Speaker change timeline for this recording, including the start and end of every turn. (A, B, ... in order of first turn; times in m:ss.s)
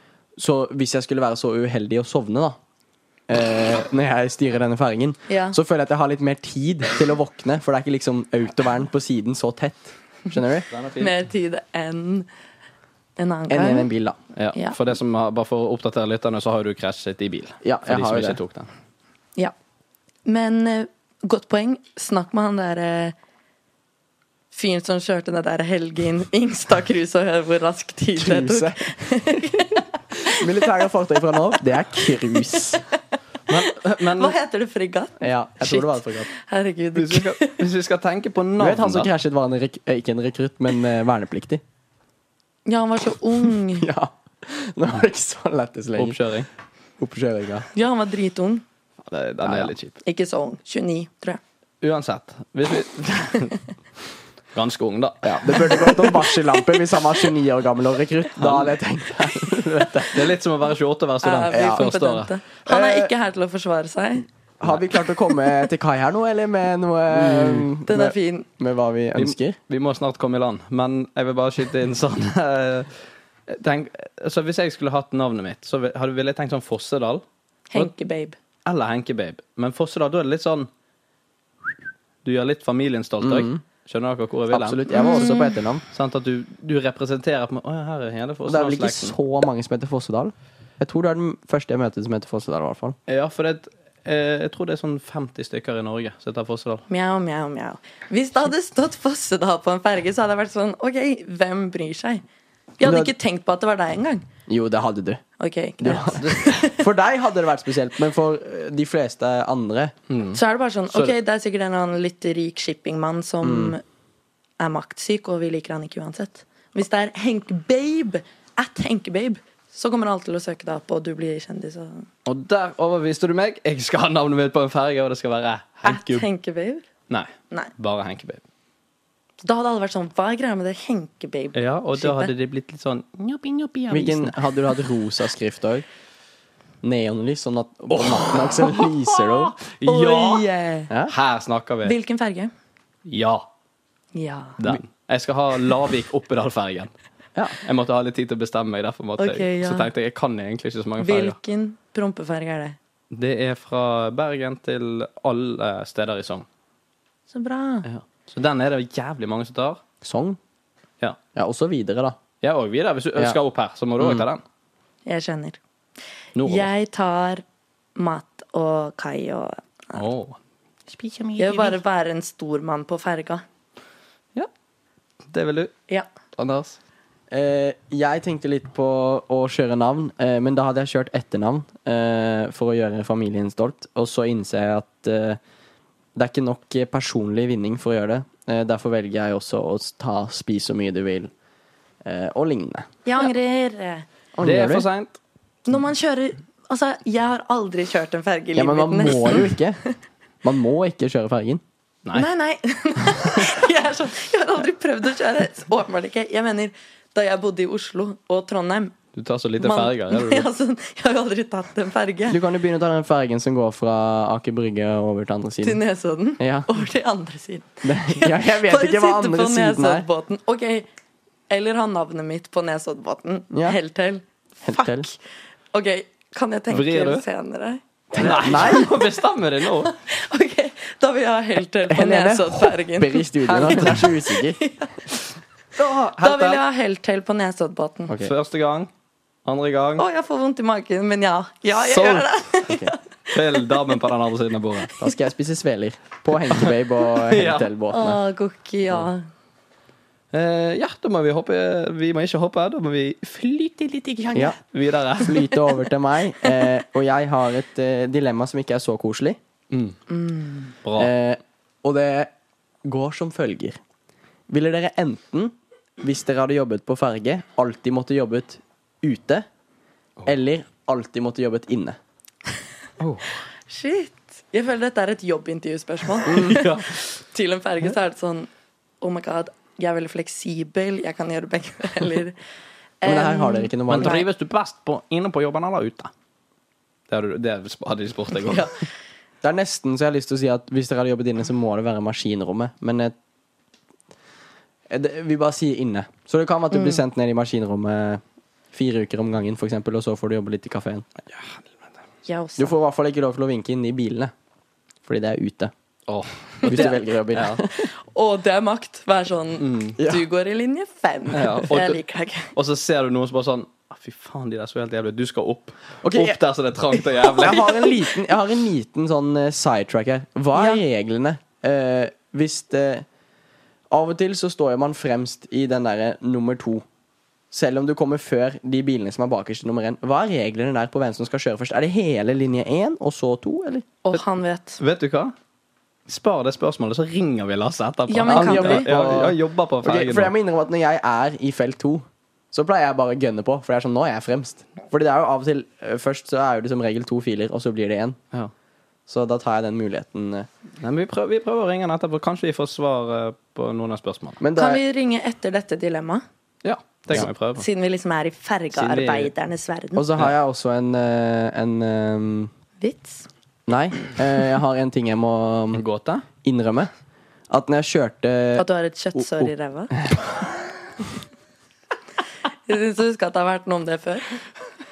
0:00.4-0:02.6 A
0:03.3-0:10.7 A
0:05.3-0:05.6 B
0:10.7-0:11.1 C
0:11.0-0:12.3 B
0:13.2-0:13.9 B
0:13.5-0:14.2 A
0:14.4-0:18.7 C
0:17.6-0:18.4 A
0:20.2-0:23.1 B
0:24.5-0:30.6 B
0:28.2-0:28.9 A
0:30.4-0:32.9 A
0:32.4-0:33.0 B
0:33.5-0:34.4 C
0:34.1-0:37.7 B
0:35.2-0:36.3 A
0:37.0-0:39.1 C
0:38.6-0:41.6 A
0:42.7-0:43.9 B
0:43.7-0:46.2 A
0:46.0-0:46.5 C
0:47.0-0:47.7 A
0:47.7-0:48.6 B
0:49.0-0:50.0 C
0:49.4-0:49.7 A
0:50.0-0:51.4 B
0:51.8-0:53.6 C
0:54.5-0:55.9 C
0:55.2-1:00.4 A
0:55.7-0:56.4 B
0:58.4-0:58.7 C
1:00.1-1:02.3 C
1:01.2-1:04.3 B
1:01.5-1:01.9 A
1:02.7-1:03.1 A
1:04.6-1:09.6 A
1:07.9-1:08.5 B
1:09.1-1:13.0 C
1:13.5-1:17.2 C
1:17.7-1:18.4 B
1:18.7-1:20.7 C
1:22.2-1:25.2 C
1:23.2-1:23.6 A
1:24.5-1:25.8 A
1:24.9-1:25.6 B
1:25.9-1:29.1 C
1:28.5-1:33.0 A
1:33.1-1:36.8 C
1:36.9-1:42.2 B
1:42.8-1:44.2 B
1:42.8-1:43.1 A
1:44.5-1:45.2 A
1:45.4-1:46.9 B
1:45.8-1:49.9 A
1:46.1-1:46.4 C
1:50.1-1:50.4 C
1:50.3-1:53.8 B
1:53.4-1:53.7 A
1:54.6-2:02.1 B
2:02.2-2:06.2 C
2:05.8-2:06.9 B
2:07.1-2:08.4 C
2:09.4-2:12.3 B
2:11.5-2:14.4 C
2:13.9-2:15.8 A
2:16.8-2:19.6 A
2:17.9-2:20.4 C
2:19.9-2:20.9 B
2:21.1-2:22.0 C
2:21.8-2:22.5 B
2:23.1-2:23.5 C
2:24.1-2:24.6 B
2:24.6-2:26.9 C
2:27.6-2:31.4 C
2:29.2-2:29.9 B
2:31.0-2:32.8 B
2:33.1-2:36.5 C
2:37.3-2:37.9 B
2:37.8-2:39.8 C
2:40.0-2:40.4 A
2:41.3-2:42.2 A
2:42.4-2:44.4 C
2:44.0-2:44.2 A
2:45.1-2:45.6 B
2:46.4-2:46.7 C
2:46.4-2:47.4 B
2:48.0-2:50.0 B
2:49.9-2:50.4 C
2:50.9-2:51.8 C
2:51.4-2:53.4 B
2:55.3-2:55.7 C
2:56.4-2:56.8 C
2:57.3-3:05.4 A
3:06.1-3:11.3 A
3:12.0-3:12.9 A
3:13.1-3:14.1 B
3:14.4-3:14.9 A
3:14.4-3:15.1 C
3:15.7-3:19.6 B
3:18.6-3:19.8 A
3:20.4-3:21.6 A
3:22.1-3:29.0 B
3:29.2-3:30.5 C
3:29.6-3:32.4 B
3:32.3-3:35.8 A
3:35.6-3:40.9 B
3:36.4-3:36.7 A
3:37.8-3:40.1 A
3:41.5-3:45.2 B
3:43.5-3:43.8 A
3:44.6-3:45.1 A
3:45.7-3:49.0 B
3:46.7-3:47.2 C
3:48.1-3:48.9 A
3:48.1-3:49.9 C
3:49.8-3:55.0 B
3:51.9-3:54.6 A
3:55.8-3:56.6 C
3:56.2-3:58.1 B
3:58.2-3:58.9 C
3:59.4-4:00.0 C
4:00.0-4:03.7 B
4:01.7-4:02.4 C
4:02.7-4:02.9 A
4:03.3-4:04.9 C
4:05.0-4:08.2 A
4:06.5-4:07.7 C
4:07.9-4:09.2 B
4:10.3-4:15.5 C
4:15.2-4:19.4 A
4:19.7-4:20.0 C
4:20.1-4:20.7 B
4:20.8-4:21.1 C
4:21.0-4:22.3 A
4:22.8-4:23.8 A
4:24.5-4:29.5 A
4:30.2-4:32.0 A
4:33.0-4:33.4 C
4:33.7-4:38.5 B
4:36.3-4:36.6 A
4:36.3-4:37.0 C
4:39.0-4:42.4 B
4:43.0-4:44.2 B
4:43.0-4:44.2 A
4:43.9-4:46.1 C
4:47.1-4:48.7 C
4:48.5-4:48.7 B
4:49.4-4:53.1 A
4:54.9-4:58.2 A
4:56.7-4:57.0 B
4:58.7-5:01.1 A
5:01.3-5:01.6 C
5:02.2-5:02.8 B
5:02.6-5:04.3 A
5:05.0-5:05.7 A
5:06.1-5:07.6 C
5:06.6-5:07.9 A
5:07.7-5:12.5 B
5:09.6-5:10.0 C
5:10.0-5:10.2 A
5:11.3-5:12.0 C
5:12.5-5:17.6 C
5:16.0-5:16.4 A
5:17.3-5:18.0 B
5:17.3-5:23.0 A
5:20.5-5:20.8 B
5:23.9-5:26.8 A
5:27.5-5:33.9 A
5:34.0-5:34.8 B
5:34.8-5:35.3 C
5:36.1-5:40.3 C
5:38.1-5:38.9 B
5:38.2-5:48.2 A
5:49.1-5:50.5 A
5:50.8-5:54.4 C
5:54.4-5:54.8 A
5:54.6-5:56.2 B
5:56.6-5:57.6 C
5:57.6-6:00.1 B
5:58.7-5:59.3 C
6:00.0-6:02.5 A
6:02.8-6:03.3 B
6:03.7-6:05.8 A
6:05.7-6:06.2 C
6:06.4-6:06.9 A
6:07.5-6:10.3 A
6:08.6-6:10.0 B
6:12.7-6:14.4 B